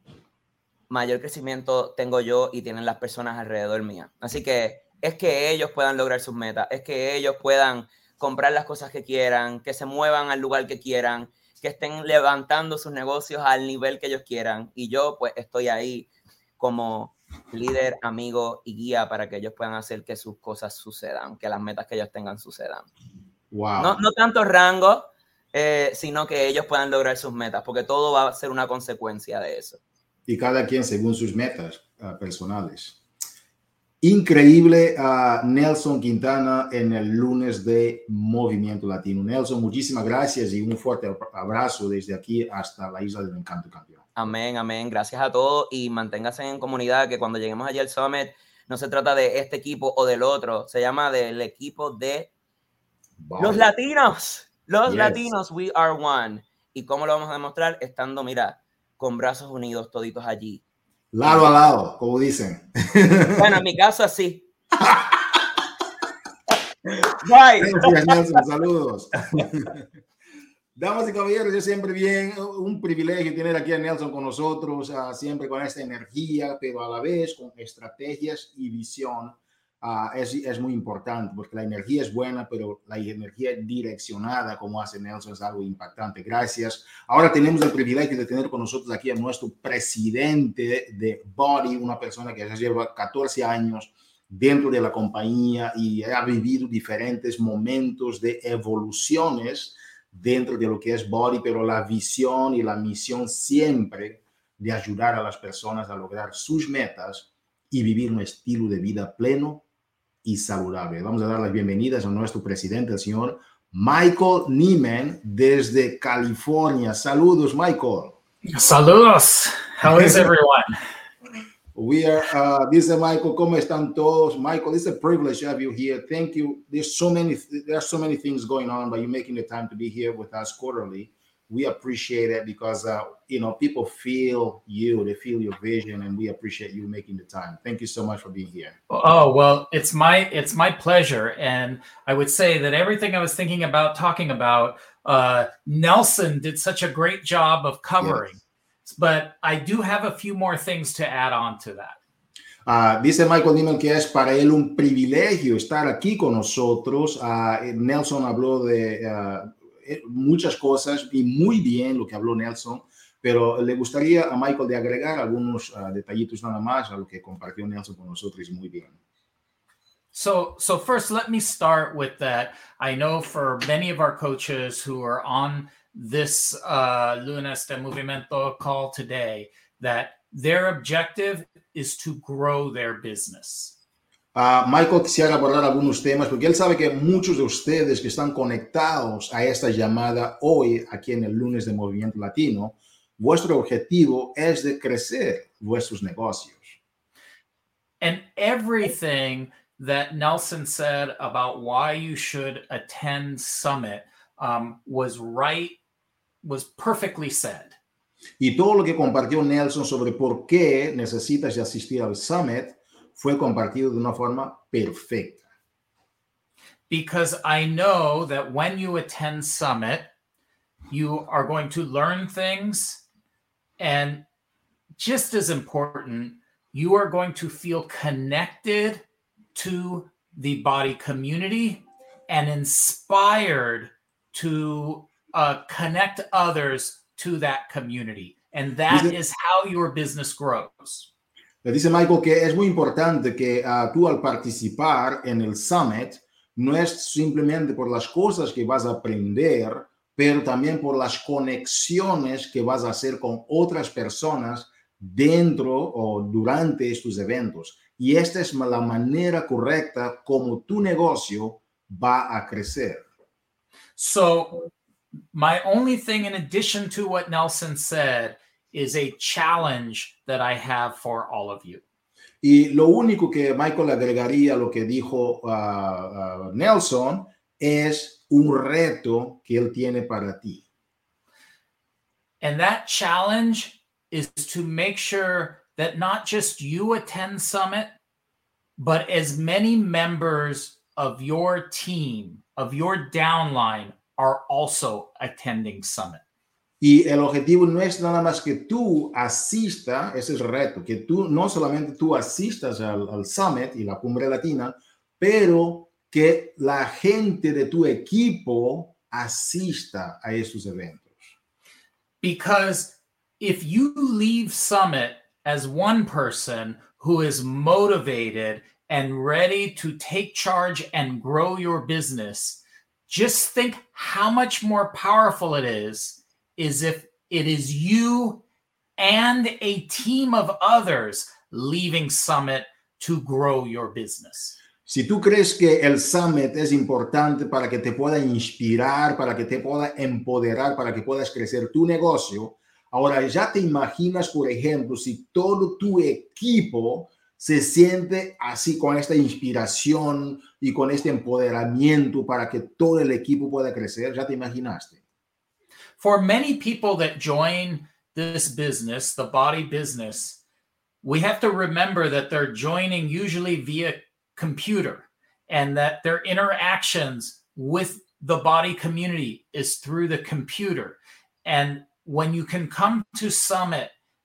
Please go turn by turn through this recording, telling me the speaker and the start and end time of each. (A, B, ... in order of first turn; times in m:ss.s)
0:00.9-0:22.9 A
0:23.5-0:24.0 B
0:23.8-0:29.8 A
0:30.3-0:33.0 B
0:34.0-0:44.1 B
0:44.2-0:52.3 A
0:53.2-0:53.7 B
0:53.4-1:00.6 A
0:54.9-0:55.3 B
1:01.1-1:03.4 B
1:03.4-1:04.5 A
1:04.8-1:05.2 B
1:06.9-1:08.2 A
1:07.6-1:09.8 B
1:10.8-1:49.6 B
1:50.2-1:58.2 B
1:58.5-2:00.7 C
1:59.8-2:00.2 B
2:01.7-2:18.8 B
2:18.9-2:32.0 C
2:28.0-2:28.3 B
2:32.7-2:48.9 B
2:50.1-3:03.7 C
3:04.4-3:16.8 B
3:18.0-3:25.8 C
3:26.4-3:27.8 C
3:28.4-3:35.4 B
3:36.9-3:40.1 C
3:40.9-3:43.0 C
3:43.8-3:44.2 C
3:45.0-4:01.1 C
3:58.9-3:59.2 B
4:01.6-4:23.0 B
4:24.0-4:24.7 C
4:25.3-4:31.8 C
4:32.4-4:40.6 B
4:42.4-4:47.9 C
4:48.8-4:56.2 C
4:56.8-5:11.3 B
5:12.2-5:28.4 C
5:29.0-5:34.6 C
5:34.9-5:55.0 B
5:56.0-6:00.4 C
6:01.0-6:13.9 C